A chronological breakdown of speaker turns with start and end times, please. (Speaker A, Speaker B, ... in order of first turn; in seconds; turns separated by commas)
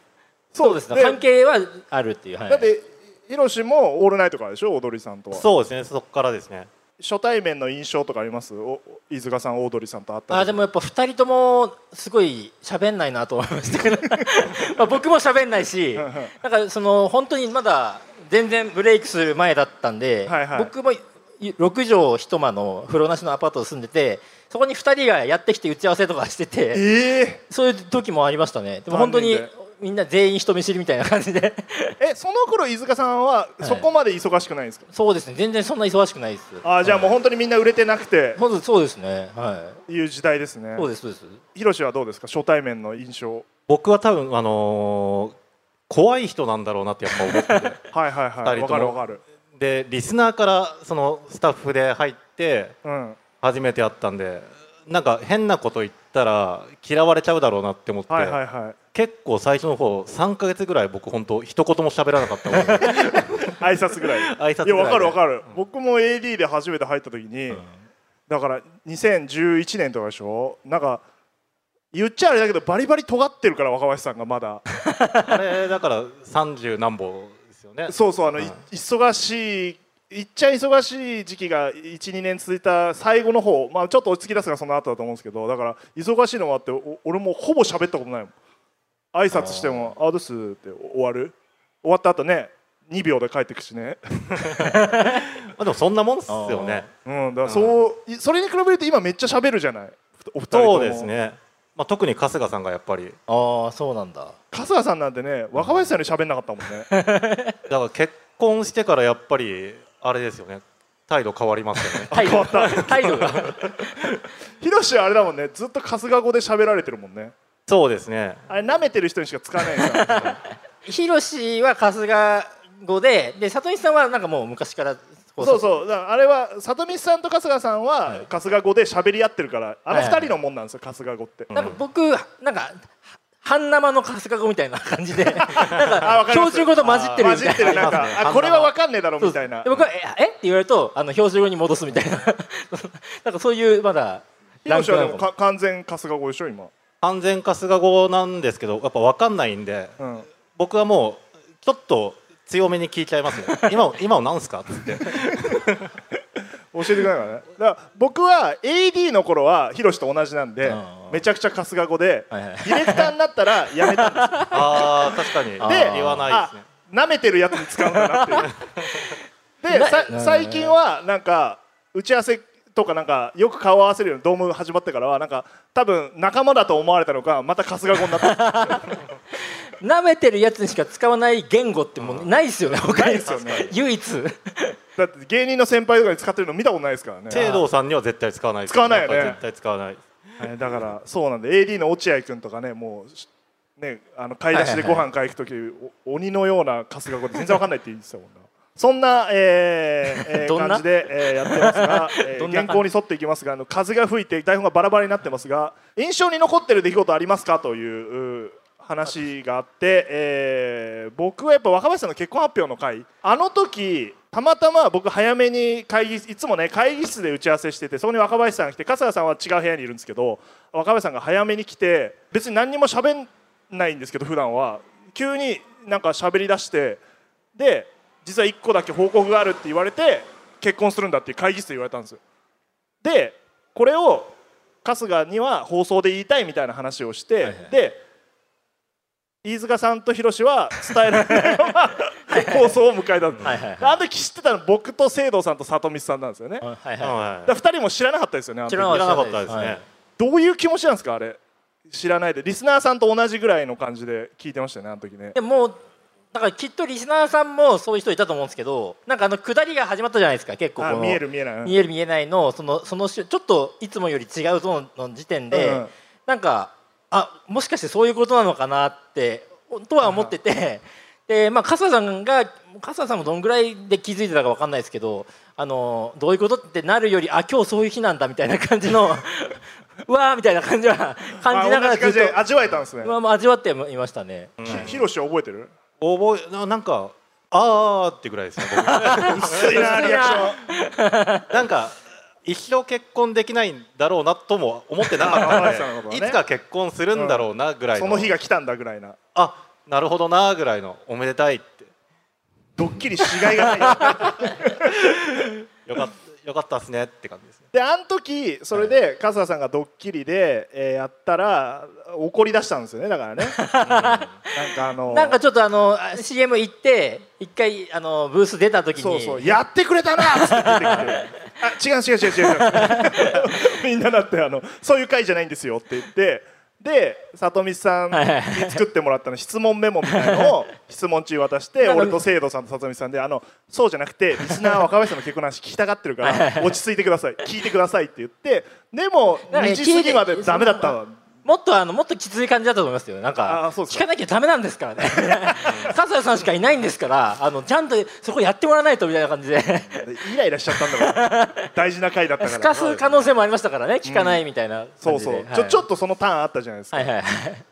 Speaker A: 0.5-1.2, Speaker B: 0.6-2.7, Speaker A: 2.5-5.4, Speaker C: 5.3-6.7, Speaker A: 7.0-10.6, Speaker B: 10.3-26.9, Speaker A: 15.9-16.3, Speaker A: 20.2-20.7, Speaker A: 26.7-27.4, Speaker B: 27.5-31.9, Speaker A: 28.9-29.5, Speaker A: 32.0-34.9, Speaker B: 34.9-37.1, Speaker A: 36.6-38.4, Speaker B: 38.4-39.8, Speaker A: 39.9-40.9, Speaker B: 40.8-41.4, Speaker A: 41.5-43.5, Speaker C: 43.7-45.3, Speaker C: 45.9-47.8, Speaker B: 47.1-47.7, Speaker A: 47.9-49.2, Speaker C: 48.4-49.0, Speaker C: 49.5-52.7, Speaker A: 52.8-53.2, Speaker C: 53.4-58.4, Speaker A: 58.1-58.8, Speaker C: 58.9-63.5, Speaker A: 62.8-67.6, Speaker C: 64.2-65.2, Speaker A: 68.3-71.0, Speaker A: 71.9-74.6, Speaker B: 74.9-75.3, Speaker C: 75.2-78.5, Speaker A: 77.9-88.3, Speaker A: 89.1-94.6, Speaker B: 89.3-89.9, Speaker B: 94.6-95.3, Speaker C: 95.4-96.9, Speaker B: 96.3-96.8, Speaker A: 97.0-101.1, Speaker C: 97.5-97.8, Speaker C: 100.5-103.2, Speaker B: 103.3-104.3, Speaker A: 104.5-106.9, Speaker B: 106.9-107.5, Speaker C: 107.7-113.6, Speaker B: 111.9-113.8, Speaker A: 112.1-113.0, Speaker A: 114.6-117.3, Speaker C: 117.7-118.4, Speaker A: 118.5-120.4, Speaker B: 119.7-125.7, Speaker A: 125.4-131.5, Speaker B: 129.9-130.3, Speaker C: 131.5-131.8, Speaker B: 131.5-132.9, Speaker B: 133.4-138.7, Speaker A: 135.3-139.7, Speaker C: 136.8-138.7, Speaker B: 139.2-145.3, Speaker A: 144.7-146.7, Speaker C: 147.0-149.9, Speaker A: 150.0-150.3, Speaker C: 150.5-155.9, Speaker A: 156.7-165.0, Speaker B: 160.6-161.2, Speaker B: 162.3-163.1, Speaker B: 163.8-166.3, Speaker C: 164.5-166.7, Speaker A: 165.6-168.5, Speaker B: 167.8-168.5, Speaker A: 169.6-178.9, Speaker B: 169.7-170.7, Speaker B: 178.2-178.9, Speaker B: 179.8-184.8, Speaker C: 182.0-182.3, Speaker A: 182.7-183.7, Speaker A: 184.9-187.5, Speaker C: 187.3-190.5, Speaker B: 187.3-187.6, Speaker A: 188.7-189.4, Speaker A: 190.4-193.3, Speaker A: 193.8-227.0, Speaker B: 194.5-195.0, Speaker B: 200.1-200.8, Speaker B: 201.4-202.8, Speaker A: 227.6-232.2, Speaker A: 233.0-234.3, Speaker A: 234.8-238.0, Speaker B: 237.4-237.7, Speaker A: 239.4-246.6, Speaker B: 241.2-241.7, Speaker B: 242.3-242.7, Speaker B: 243.4-244.0, Speaker B: 246.6-247.2, Speaker C: 247.0-247.5, Speaker A: 247.4-249.0, Speaker B: 248.7-249.8, Speaker C: 248.7-249.8, Speaker A: 250.2-255.3, Speaker B: 255.3-255.8, Speaker B: 256.3-282.4, Speaker A: 260.8-261.8, Speaker A: 265.5-265.9, Speaker A: 281.4-283.1, Speaker B: 283.0-284.6, Speaker C: 284.6-285.0, Speaker A: 284.6-285.7, Speaker C: 286.0-290.4, Speaker B: 288.7-291.5, Speaker A: 289.2-290.6, Speaker C: 291.5-298.3, Speaker A: 295.1-296.4, Speaker A: 297.1-299.2, Speaker C: 299.3-301.9, Speaker A: 302.8-304.9, Speaker B: 304.0-304.5, Speaker C: 305.0-307.6, Speaker A: 307.7-313.6, Speaker B: 313.4-314.5, Speaker C: 313.8-314.4, Speaker A: 314.5-315.4, Speaker B: 315.1-319.6, Speaker A: 319.0-341.2, Speaker B: 320.2-321.3, Speaker B: 322.5-323.4, Speaker B: 328.1-328.8, Speaker B: 330.1-330.5, Speaker B: 331.8-332.2, Speaker B: 334.5-334.8, Speaker B: 336.2-336.7, Speaker B: 339.5-350.1, Speaker A: 343.5-344.1, Speaker A: 345.1-345.8, Speaker C: 345.6-345.9, Speaker A: 350.0-352.7, Speaker B: 350.7-351.7, Speaker B: 352.4-355.8, Speaker C: 352.7-353.3, Speaker A: 354.0-354.4, Speaker A: 355.0-357.1, Speaker B: 356.9-357.6